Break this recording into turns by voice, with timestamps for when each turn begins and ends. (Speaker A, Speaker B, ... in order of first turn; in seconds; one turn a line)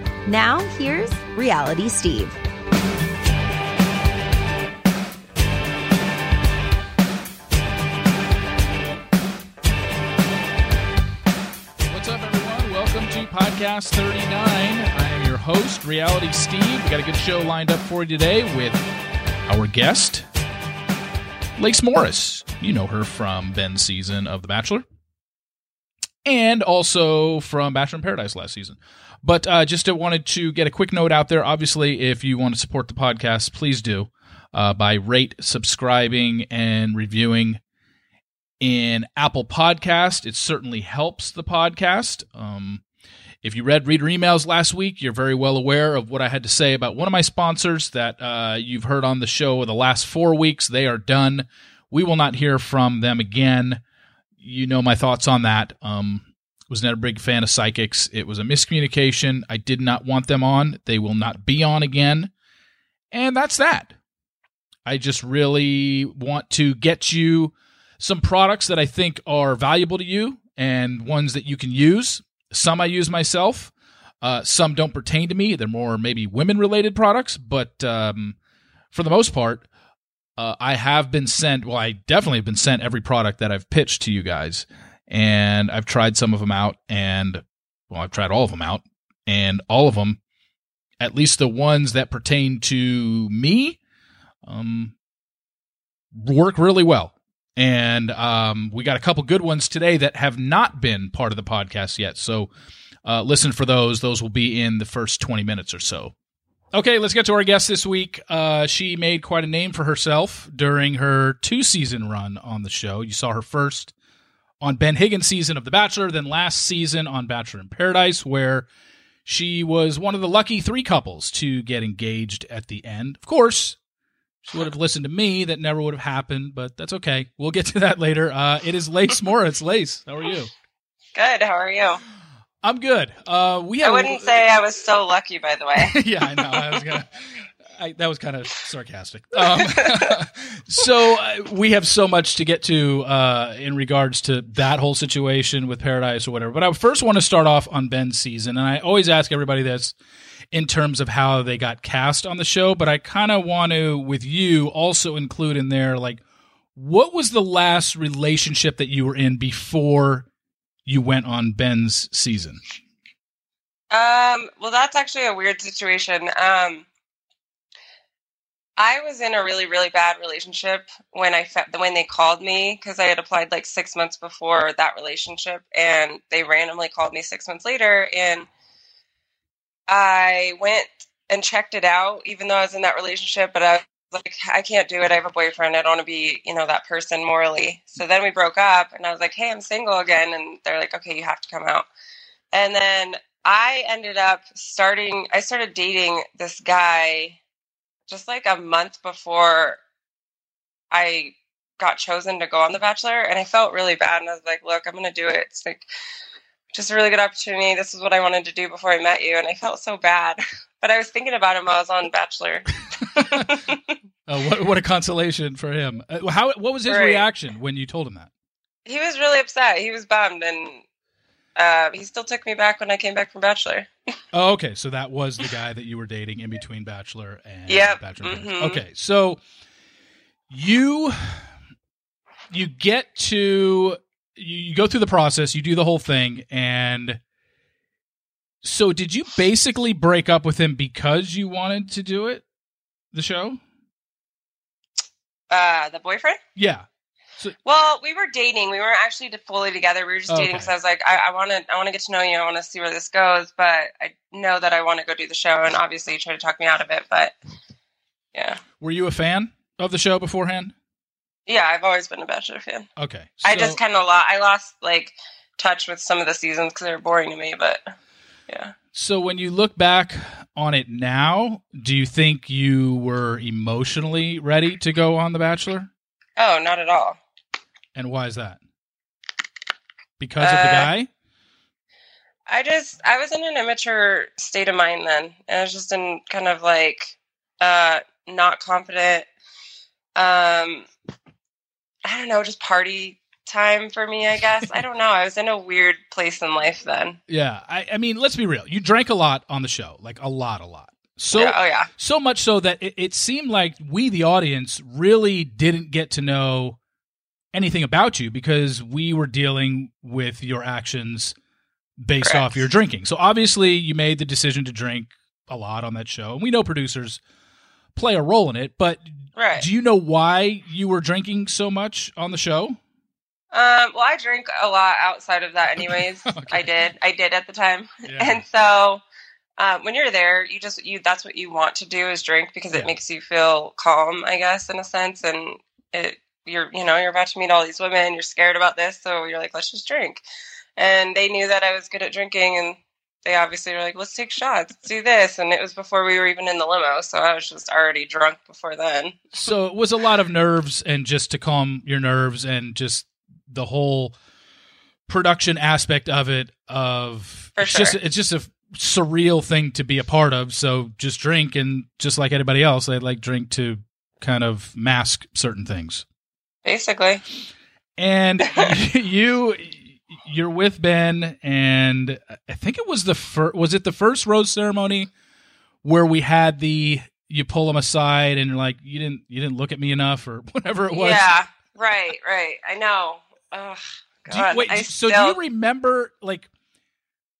Speaker A: 0.3-2.4
Speaker B: 11.9-18.9
Speaker B: 19.5-20.3
Speaker B: 21.6-24.8
Speaker B: 26.2-37.6
Speaker B: 38.6-42.8
Speaker B: 43.4-53.8
Speaker B: 54.4-62.3
Speaker B: 63.1-64.0
Speaker B: 64.8-78.4
Speaker B: 78.9-79.7
Speaker B: 80.4-90.2
Speaker B: 91.0-93.8
Speaker B: 94.4-95.0
Speaker B: 96.1-102.5
Speaker B: 103.0-106.1
Speaker B: 106.7-113.9
Speaker B: 114.6-118.7
Speaker B: 119.2-123.8
Speaker B: 124.4-130.5
Speaker C: 131.2-132.0
Speaker B: 132.6-134.3
Speaker C: 133.8-136.0
Speaker B: 135.8-150.0
Speaker C: 139.5-140.2
Speaker B: 150.5-156.2
Speaker B: 156.8-160.3
Speaker B: 160.9-162.6
Speaker C: 163.9-166.9
Speaker C: 168.8-178.5
Speaker C: 179.9-191.9
Speaker C: 192.5-197.4
Speaker C: 198.1-199.8
Speaker C: 200.9-205.9
Speaker C: 206.7-213.9
Speaker B: 213.0-213.6
Speaker B: 214.3-218.3
Speaker C: 216.9-217.2
Speaker C: 218.9-220.8
Speaker C: 221.6-223.9
Speaker B: 224.3-229.4
Speaker C: 227.7-228.8
Speaker B: 230.5-231.5
Speaker B: 232.5-237.2
Speaker B: 238.6-242.4
Speaker B: 243.1-243.6
Speaker C: 245.5-246.4
Speaker B: 246.6-246.9
Speaker C: 247.6-257.3
Speaker B: 250.3-250.7
Speaker C: 258.3-258.6
Speaker B: 258.8-260.7
Speaker C: 261.5-262.9
Speaker B: 263.0-263.8
Speaker C: 263.4-267.8
Speaker C: 268.5-268.8
Speaker B: 268.9-275.9
Speaker C: 276.4-277.2
Speaker B: 277.9-278.6
Speaker B: 280.2-281.1
Speaker C: 280.4-280.9
Speaker C: 282.5-289.3
Speaker C: 290.2-290.9
Speaker C: 292.1-297.2
Speaker B: 297.3-306.8
Speaker C: 301.3-301.9
Speaker B: 307.5-311.4
Speaker B: 312.0-317.2
Speaker C: 312.2-312.7
Speaker B: 317.9-322.8
Speaker C: 319.4-319.6
Speaker C: 323.5-329.0
Speaker B: 325.8-326.7
Speaker B: 328.1-328.4
Speaker C: 329.6-340.2
Speaker C: 340.8-349.3
Speaker B: 349.3-354.1
Speaker B: 355.1-366.1
Speaker C: 357.6-358.0
Speaker C: 366.6-367.2
Speaker B: 368.0-375.1
Speaker B: 375.8-381.3
Speaker C: 380.9-385.4
Speaker B: 384.3-386.5